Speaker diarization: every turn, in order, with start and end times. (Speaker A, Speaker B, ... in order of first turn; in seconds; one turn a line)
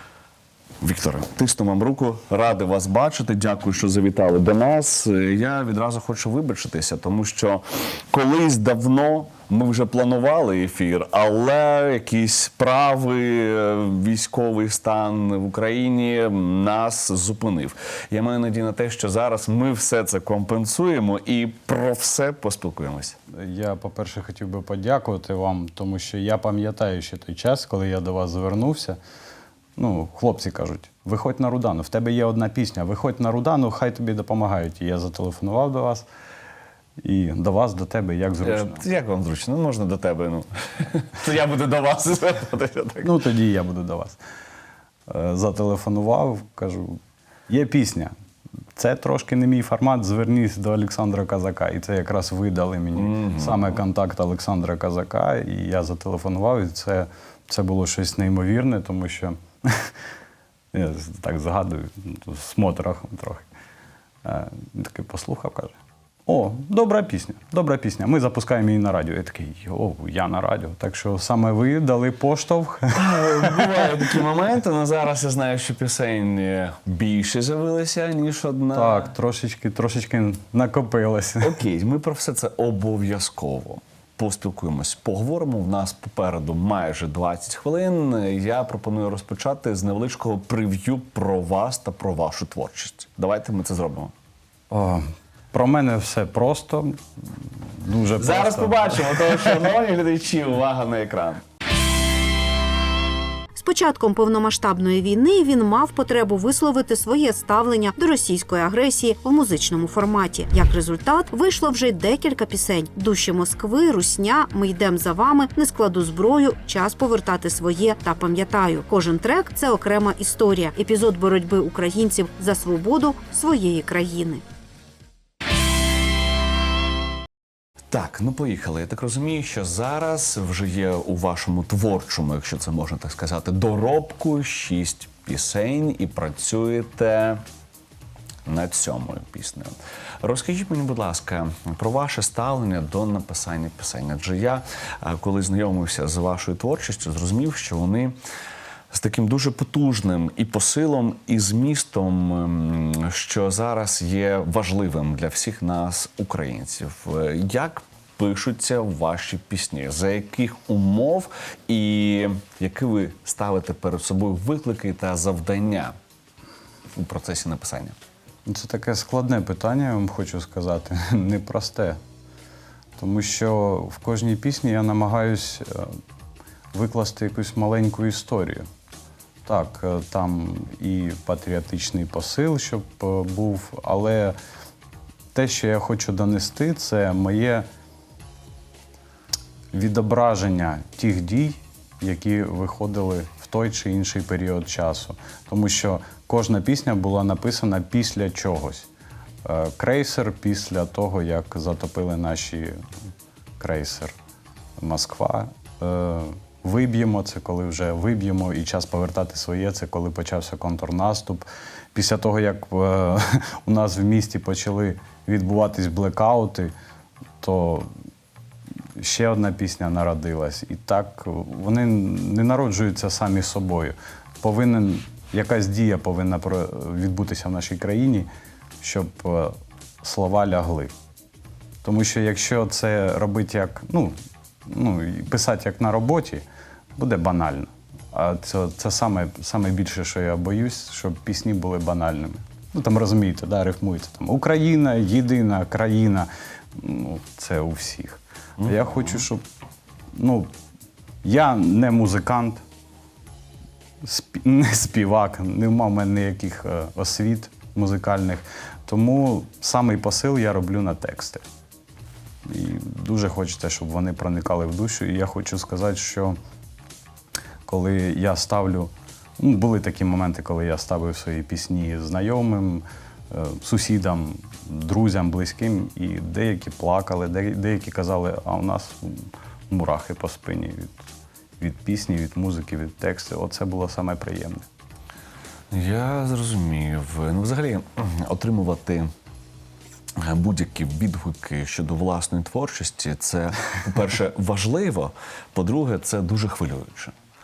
Speaker A: 0.8-23.2
Speaker B: 23.3-29.0
Speaker B: 29.8-36.1
Speaker B: 37.0-38.8
Speaker A: 38.4-43.2
Speaker B: 43.0-44.2
Speaker B: 45.1-48.1
Speaker B: 48.8-59.9
Speaker A: 53.0-53.7
Speaker B: 60.7-63.5
Speaker B: 64.2-65.7
Speaker B: 66.3-74.1
Speaker A: 73.0-79.1
Speaker B: 78.7-81.6
Speaker A: 81.4-94.1
Speaker B: 94.7-99.7
Speaker A: 98.2-101.4
Speaker C: 103.6-124.4
Speaker A: 127.9-137.4
Speaker A: 138.5-148.2
Speaker A: 148.9-166.0
Speaker A: 166.9-168.0
Speaker B: 168.5-172.0
Speaker B: 173.0-175.9
Speaker B: 176.7-178.7
Speaker B: 179.5-184.4
Speaker B: 185.3-187.7
Speaker B: 189.7-198.9
Speaker B: 199.4-202.8
Speaker B: 203.6-204.2
Speaker B: 204.8-216.7
Speaker B: 217.4-217.9
Speaker B: 219.0-228.3
Speaker B: 228.8-230.9
Speaker B: 231.8-234.2
Speaker B: 234.7-236.4
Speaker B: 237.0-249.4
Speaker A: 248.6-249.2
Speaker B: 250.1-250.5
Speaker B: 251.2-252.6
Speaker B: 254.0-261.4
Speaker B: 262.4-266.4
Speaker B: 267.7-281.1
Speaker B: 281.6-284.7
Speaker A: 285.7-289.1
Speaker A: 290.2-297.1